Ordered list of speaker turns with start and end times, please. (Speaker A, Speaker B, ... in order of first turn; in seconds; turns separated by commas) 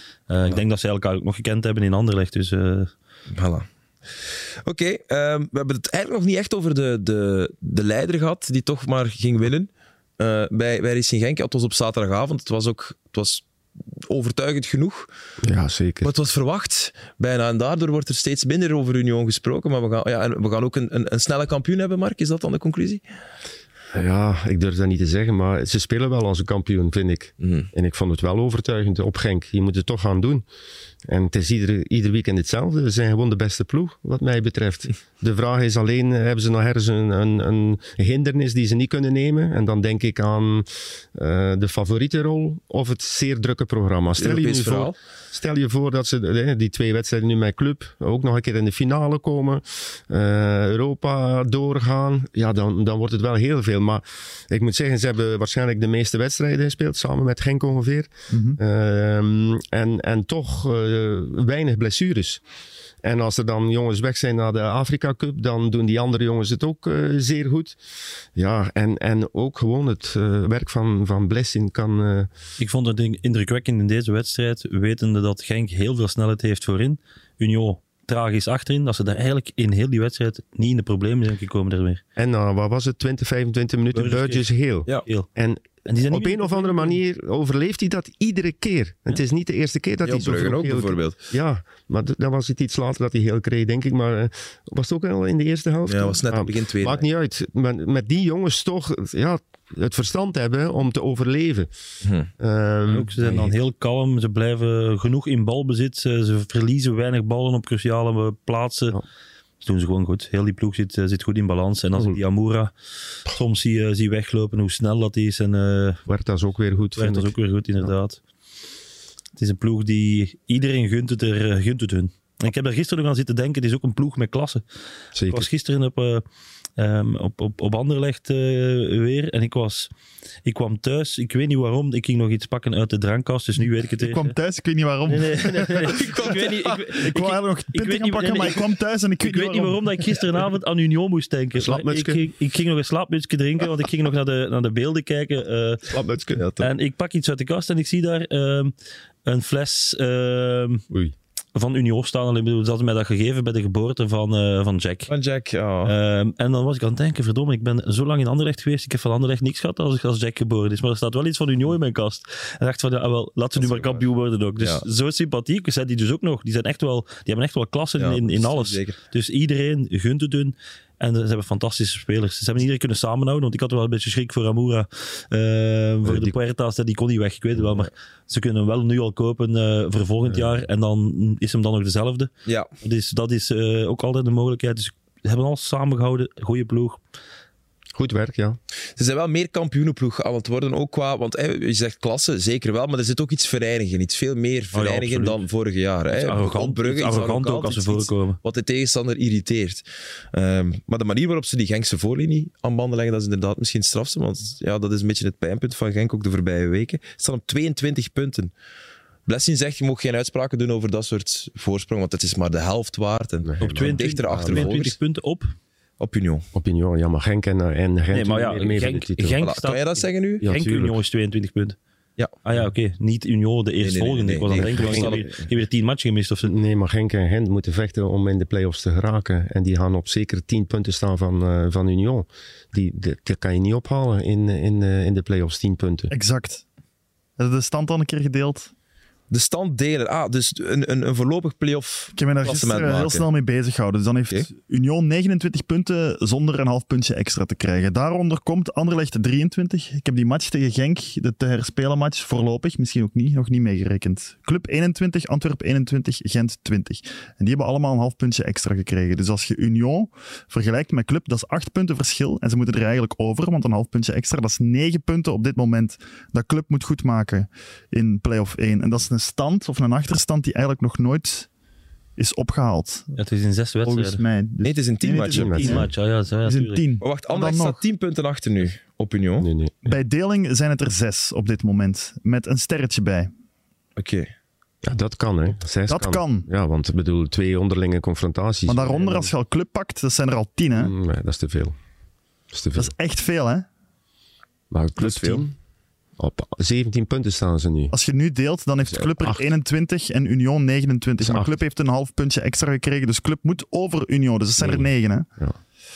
Speaker A: 0.3-2.9, Speaker B: 3.3-3.6, Speaker B: 4.2-13.4, Speaker B: 13.9-15.1, Speaker C: 15.4-16.1, Speaker B: 16.0-23.0, Speaker C: 23.9-30.4, Speaker B: 27.4-27.7, Speaker C: 31.1-62.4, Speaker B: 44.2-45.0, Speaker D: 58.3-58.6, Speaker C: 63.0-67.8, Speaker C: 68.3-72.3, Speaker A: 72.6-82.0, Speaker C: 82.2-101.7, Speaker A: 83.9-84.5, Speaker A: 85.8-87.0, Speaker B: 90.0-91.2, Speaker B: 95.8-97.0, Speaker B: 102.0-102.3, Speaker C: 102.4-103.5, Speaker A: 102.9-109.0, Speaker A: 109.6-112.7, Speaker A: 113.2-116.0, Speaker C: 116.1-117.9, Speaker A: 117.0-118.2, Speaker A: 119.3-124.6, Speaker C: 125.1-125.5, Speaker A: 125.3-126.2, Speaker A: 126.8-129.9, Speaker A: 130.4-134.3, Speaker D: 134.0-135.9, Speaker A: 135.1-138.7, Speaker B: 135.9-136.9, Speaker D: 137.0-139.8, Speaker A: 139.2-145.9, Speaker C: 141.5-142.2, Speaker C: 145.9-146.4, Speaker B: 146.4-146.7, Speaker A: 146.6-148.7, Speaker A: 149.2-150.8, Speaker A: 151.5-155.1, Speaker B: 155.1-155.9, Speaker A: 155.8-187.0, Speaker B: 163.6-164.0, Speaker B: 168.0-169.0, Speaker C: 176.0-176.3, Speaker C: 180.2-180.6, Speaker C: 187.9-188.6, Speaker B: 188.9-208.5, Speaker A: 194.7-195.4, Speaker A: 196.1-198.4, Speaker B: 209.2-215.0, Speaker C: 213.4-214.8, Speaker A: 213.6-215.5, Speaker B: 216.0-216.5, Speaker C: 216.5-219.4, Speaker A: 218.1-221.8, Speaker B: 219.4-220.5, Speaker C: 220.4-221.0, Speaker A: 222.4-226.5, Speaker B: 223.8-225.4, Speaker C: 224.6-225.3, Speaker C: 226.4-236.1, Speaker D: 236.1-236.6, Speaker D: 237.4-238.7, Speaker B: 239.3-243.2, Speaker D: 242.2-271.5, Speaker D: 272.2-273.1, Speaker A: 273.1-274.2, Speaker D: 273.8-275.9, Speaker B: 274.6-275.8, Speaker C: 275.3-275.9, Speaker A: 275.5-276.9, Speaker D: 276.4-277.8, Speaker B: 277.0-279.5, Speaker C: 279.4-279.9, Speaker D: 279.8-283.3, Speaker B: 284.0-284.3, Speaker C: 284.8-289.3, Speaker D: 285.9-286.5, Speaker D: 288.7-290.9, Speaker C: 290.7-291.7, Speaker C: 292.5-292.9, Speaker D: 292.8-293.6, Speaker C: 294.7-295.5, Speaker D: 295.0-295.4, Speaker C: 296.2-297.9, Speaker D: 297.9-305.2, Speaker C: 298.8-299.5, Speaker C: 301.2-301.6, Speaker C: 304.6-305.6